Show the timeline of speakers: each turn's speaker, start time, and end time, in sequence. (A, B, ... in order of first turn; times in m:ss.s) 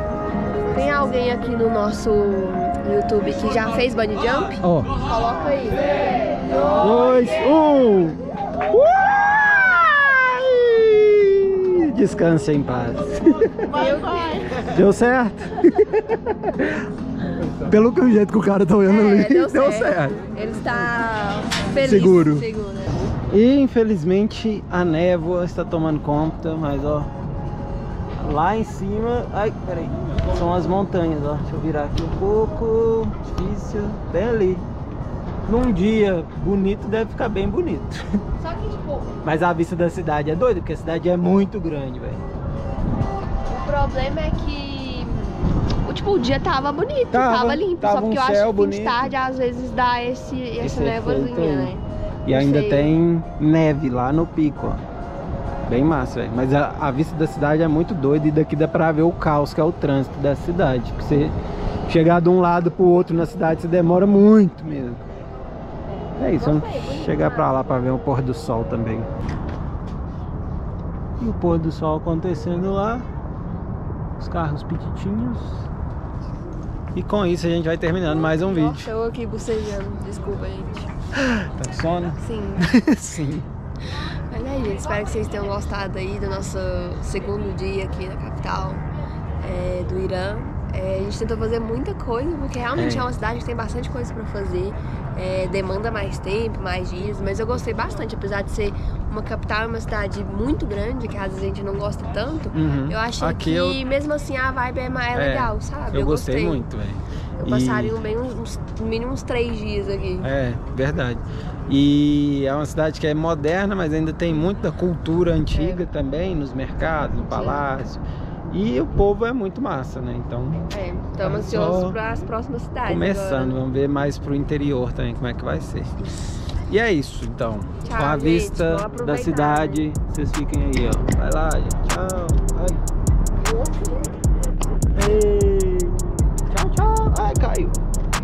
0:00.7-0:07.3 A
0:04.6-0:05.0 B
0:06.8-0:08.2 B
0:08.7-0:13.7 B
0:13.7-0:14.6 A
0:14.7-0:16.9 B
0:17.5-0:20.3 B
0:18.8-0:23.2 A
0:21.8-0:22.4 B
0:23.3-0:27.1 B
0:28.2-0:34.6 B
0:35.5-0:38.2 B
0:38.4-0:39.2 A
0:39.2-0:42.2 B
0:43.5-0:52.9 A
0:47.1-0:49.2 B
0:50.6-0:54.8 B
0:55.7-1:01.4 B
1:01.9-1:05.0 B
1:05.9-1:07.8 A
1:06.2-1:09.1 B
1:11.2-1:13.1 B
1:14.2-1:15.7 B
1:17.0-1:18.9 B
1:18.0-1:20.9 A
1:21.2-1:23.5 B
1:22.2-1:22.7 A
1:24.3-1:28.8 A
1:29.4-1:46.6 A
1:32.8-1:33.1 B
1:42.5-1:43.8 B
1:45.1-1:48.0 B
1:47.4-1:50.3 A
1:50.2-2:00.7 B
1:55.5-1:55.8 A
1:57.3-1:57.7 A
2:00.7-2:03.6 A
2:01.2-2:02.0 B
2:02.9-2:06.1 B
2:06.6-2:12.8 B
2:07.8-2:09.8 A
2:14.9-2:17.8 B